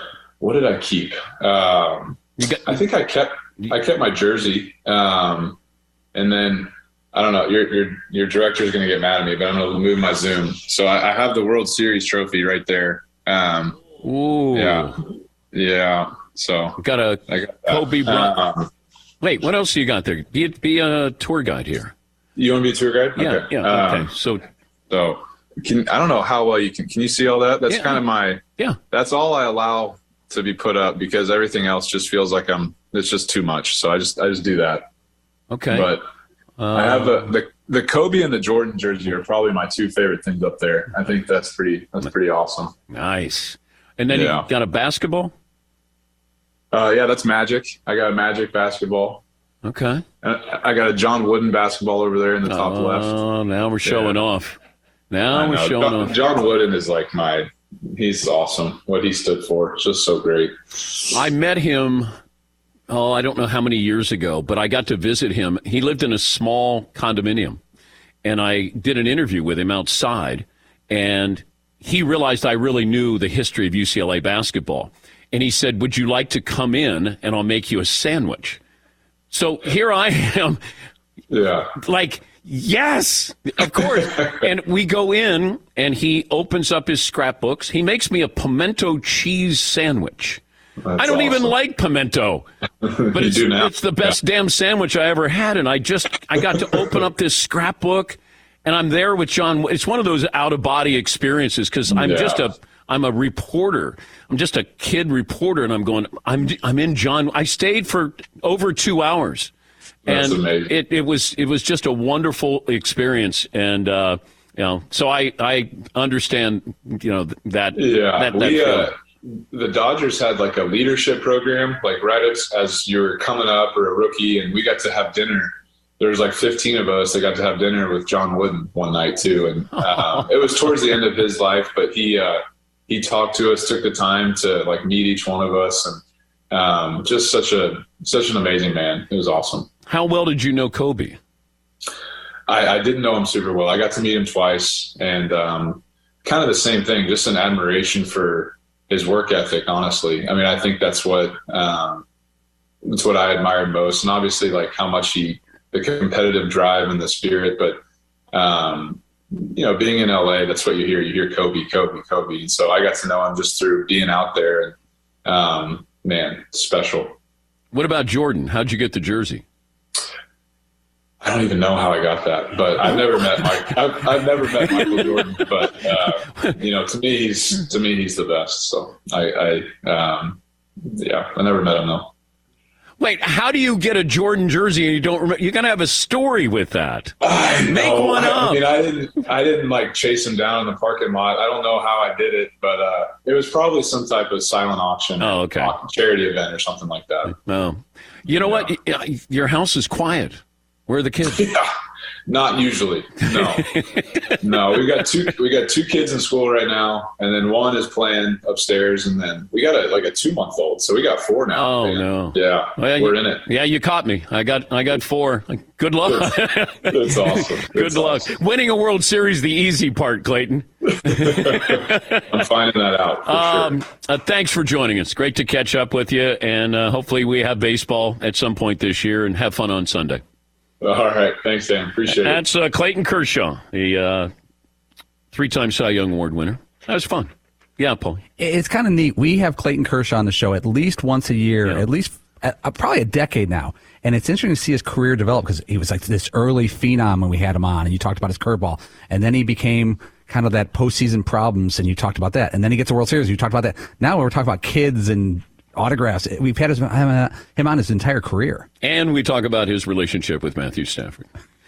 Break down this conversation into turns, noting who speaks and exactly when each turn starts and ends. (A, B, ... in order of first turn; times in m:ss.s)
0:00.4-0:05.6 A
0:02.4-0:02.8 B
0:06.1-0:13.8 A
0:14.0-0:15.0 B
0:14.5-0:16.8 A
0:16.8-0:18.4 B
0:17.3-0:18.7 A
0:19.2-0:21.9 B
0:22.4-0:24.1 A
0:23.2-0:24.4 B
0:24.9-0:34.9 A
0:27.7-0:28.0 B
0:35.5-0:35.9 B
0:35.7-0:36.1 A
0:36.6-0:37.3 B
0:36.7-0:42.7 A
0:42.9-0:45.3 B
0:44.1-0:44.5 A
0:46.7-0:49.2 A
0:49.6-0:50.0 B
0:50.2-0:53.2 A
0:52.4-0:54.6 B
0:53.8-0:54.2 A
0:55.1-0:56.2 B
0:55.3-1:00.6 A
1:01.1-1:02.1 B
1:02.9-1:07.6 B
1:08.2-1:18.6 B
1:19.3-1:20.6 B
1:21.3-1:21.7 A
1:21.8-1:30.4 B
1:24.0-1:24.4 A
1:30.8-1:31.5 A
1:31.0-1:32.5 B
1:32.8-1:34.2 A
1:33.1-1:49.5 B
1:41.9-1:42.4 A
1:50.1-1:50.7 A
1:50.1-1:58.9 B
1:57.8-2:19.7 A
2:09.9-2:10.3 B
2:19.9-2:21.2 B
2:22.5-2:32.0 A
2:32.8-2:37.8 A
2:38.3-2:47.2 A
2:47.7-2:49.4 B
2:51.2-3:02.1 A
2:54.5-2:55.5 B
3:03.0-3:08.6 B
3:07.2-3:17.4 A
3:15.2-3:15.7 B
3:17.4-3:21.5 B
3:18.4-3:18.7 A
3:21.2-3:21.7 A
3:22.3-3:23.8 A
3:23.3-3:24.8 B
3:24.4-3:33.4 A
3:31.5-3:42.4 B
3:36.1-3:38.3 A
3:40.9-3:43.8 A
3:43.3-3:50.2 B
3:50.8-3:52.4 A
3:52.1-3:54.3 B
3:55.3-3:58.2 B
3:58.4-4:18.7 C
4:18.8-4:21.3 B